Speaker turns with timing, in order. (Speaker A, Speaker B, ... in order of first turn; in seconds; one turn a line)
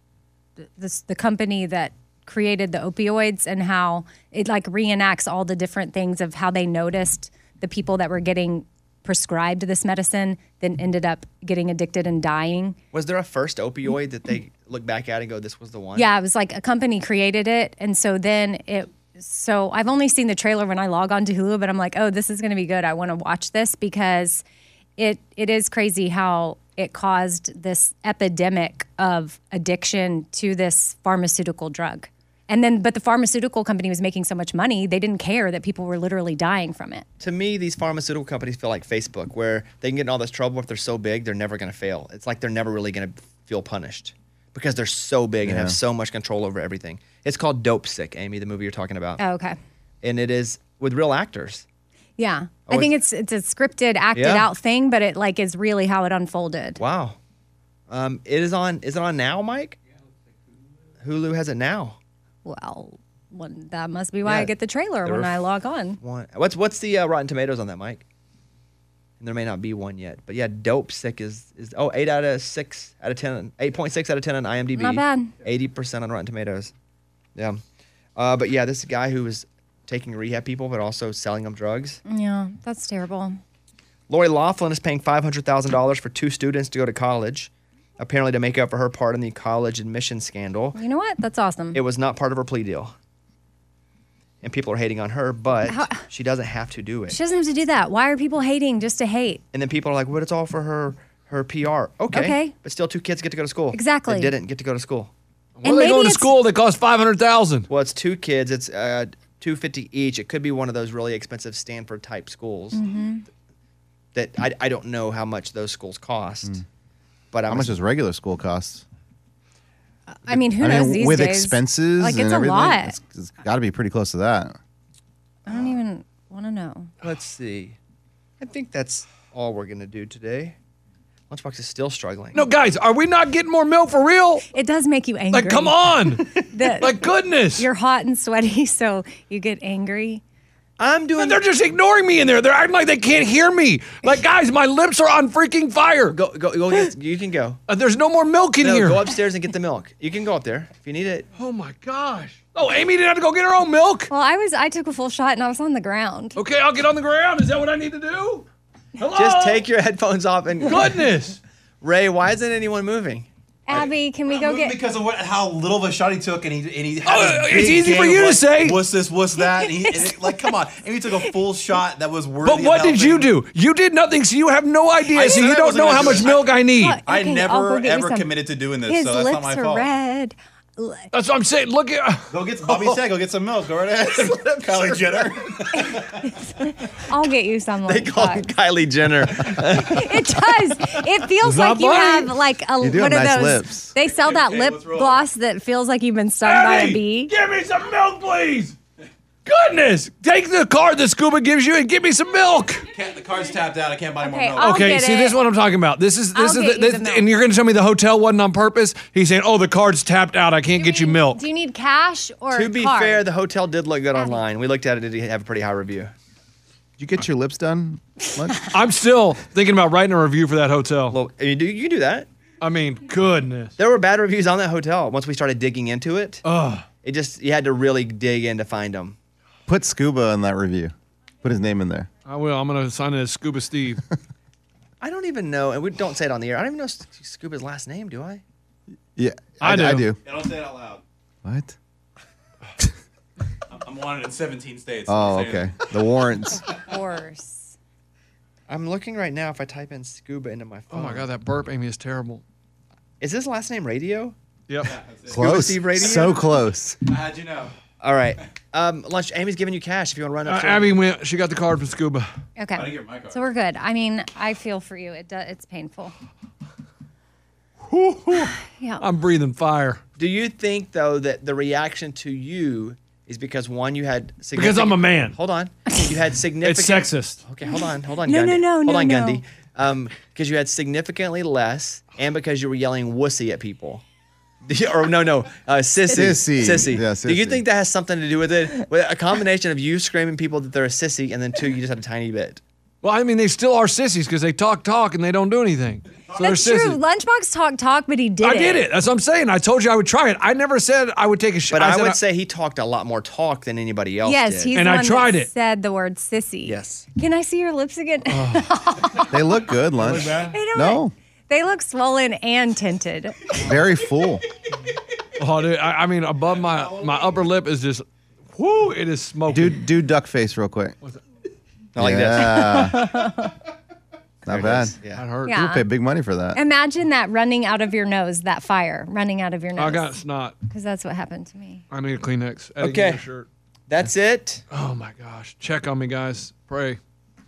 Speaker A: 0.8-12.8
Speaker B: 12.9-16.1
Speaker A: 15.9-24.4
Speaker A: 25.0-37.0
Speaker B: 37.2-49.2
Speaker C: 45.4-45.8
Speaker A: 49.2-49.6
Speaker B: 50.0-51.6
Speaker A: 52.2-56.8
Speaker B: 52.7-52.9
Speaker B: 54.1-54.5
Speaker B: 56.8-57.2
Speaker B: 57.9-59.8
Speaker B: 61.0-62.0
Speaker A: 62.5-66.0
Speaker B: 64.2-64.5
Speaker B: 65.0-65.5
Speaker B: 66.0-68.0
Speaker B: 69.2-76.7
Speaker A: 74.8-75.3
Speaker B: 77.4-77.6
Speaker B: 78.2-82.0
Speaker A: 82.1-83.4
Speaker B: 84.1-90.8
Speaker A: 90.8-91.8
Speaker B: 91.7-92.9
Speaker B: 94.4-97.2
Speaker A: 95.7-96.0
Speaker A: 97.1-99.4
Speaker B: 99.5-105.1
Speaker A: 102.1-102.5
Speaker A: 103.7-104.3
Speaker D: 105.6-107.7
Speaker A: 105.6-106.3
Speaker B: 107.7-112.8
Speaker A: 112.7-113.2
Speaker B: 114.1-116.6
Speaker B: 117.3-117.8
Speaker C: 117.5-118.8
Speaker A: 120.1-123.0
Speaker C: 120.3-124.6
Speaker A: 125.5-126.9
Speaker B: 127.0-127.8
Speaker B: 128.4-130.6
Speaker B: 131.3-132.5
Speaker D: 132.3-134.5
Speaker A: 134.5-137.0
Speaker D: 135.3-137.7
Speaker A: 137.6-140.2
Speaker B: 140.8-141.4
Speaker D: 141.2-146.2
Speaker B: 146.1-147.6
Speaker D: 147.7-149.1
Speaker B: 148.6-151.3
Speaker D: 151.4-154.1
Speaker A: 154.1-156.4
Speaker D: 156.3-158.5
Speaker D: 159.0-159.7
Speaker B: 159.1-161.0
Speaker D: 160.6-161.4
Speaker B: 161.8-163.3
Speaker A: 163.7-164.8
Speaker E: 163.7-173.3
Speaker D: 167.1-168.8
Speaker A: 169.4-170.6
Speaker D: 172.4-177.0
Speaker E: 175.1-176.5
Speaker A: 176.8-181.1
Speaker E: 177.0-179.9
Speaker D: 181.1-182.3
Speaker E: 182.3-186.2
Speaker A: 185.7-188.5
Speaker B: 187.9-190.9
Speaker A: 189.7-197.3
Speaker D: 191.4-192.3
Speaker C: 192.8-193.9
Speaker E: 194.0-195.2
Speaker D: 196.4-198.8
Speaker D: 199.5-202.9
Speaker E: 202.9-204.9
Speaker A: 204.2-205.4
Speaker D: 204.6-211.4
Speaker A: 206.3-207.3
Speaker A: 210.8-213.2
Speaker B: 212.5-216.1
Speaker A: 214.2-214.4
Speaker C: 217.0-218.7
Speaker D: 218.7-221.2
Speaker B: 221.1-222.3
Speaker D: 222.6-223.8
Speaker B: 223.8-226.4
Speaker D: 226.4-226.9
Speaker B: 227.0-229.2
Speaker C: 229.7-232.1
Speaker D: 232.3-234.0
Speaker B: 235.0-238.4
Speaker C: 239.2-240.2
Speaker D: 239.6-240.1
Speaker E: 240.2-241.0
Speaker C: 241.4-241.8
Speaker E: 243.7-245.8
Speaker C: 245.1-246.6
Speaker A: 246.6-247.8
Speaker B: 248.7-251.3
Speaker D: 250.9-252.4
Speaker B: 253.2-254.3
Speaker D: 254.7-254.9
Speaker E: 254.8-256.3
Speaker C: 255.3-257.0
Speaker B: 255.3-256.4
Speaker E: 257.1-257.7
Speaker B: 258.0-261.0
Speaker D: 260.5-262.3
Speaker A: 262.6-266.1
Speaker E: 262.7-263.4
Speaker D: 267.9-270.0
Speaker A: 268.7-269.0
Speaker B: 270.2-284.0
Speaker D: 274.6-275.4
Speaker D: 276.6-277.4
Speaker A: 277.6-279.4
Speaker B: 284.6-292.6
Speaker C: 286.1-287.6
Speaker D: 293.0-297.0
Speaker A: 296.4-298.9
Speaker D: 298.4-302.2
Speaker B: 301.7-304.7
Speaker A: 304.2-309.4
Speaker D: 304.7-305.5
Speaker B: 306.6-307.1
Speaker D: 308.3-308.7
Speaker C: 309.3-311.1
Speaker D: 310.0-310.5
Speaker A: 310.5-313.6
Speaker C: 313.6-314.4
Speaker D: 315.4-319.8
Speaker C: 319.5-320.9
Speaker B: 321.9-322.9
Speaker C: 322.0-323.1
Speaker A: 322.4-323.5
Speaker C: 324.4-324.9
Speaker B: 324.5-325.2
Speaker D: 325.1-325.6
Speaker A: 325.5-325.9
Speaker C: 325.5-326.6
Speaker A: 326.6-330.1
Speaker D: 329.8-330.6
Speaker A: 330.7-331.8
Speaker D: 331.9-333.5
Speaker B: 332.8-333.2
Speaker B: 333.9-334.6
Speaker D: 334.7-337.0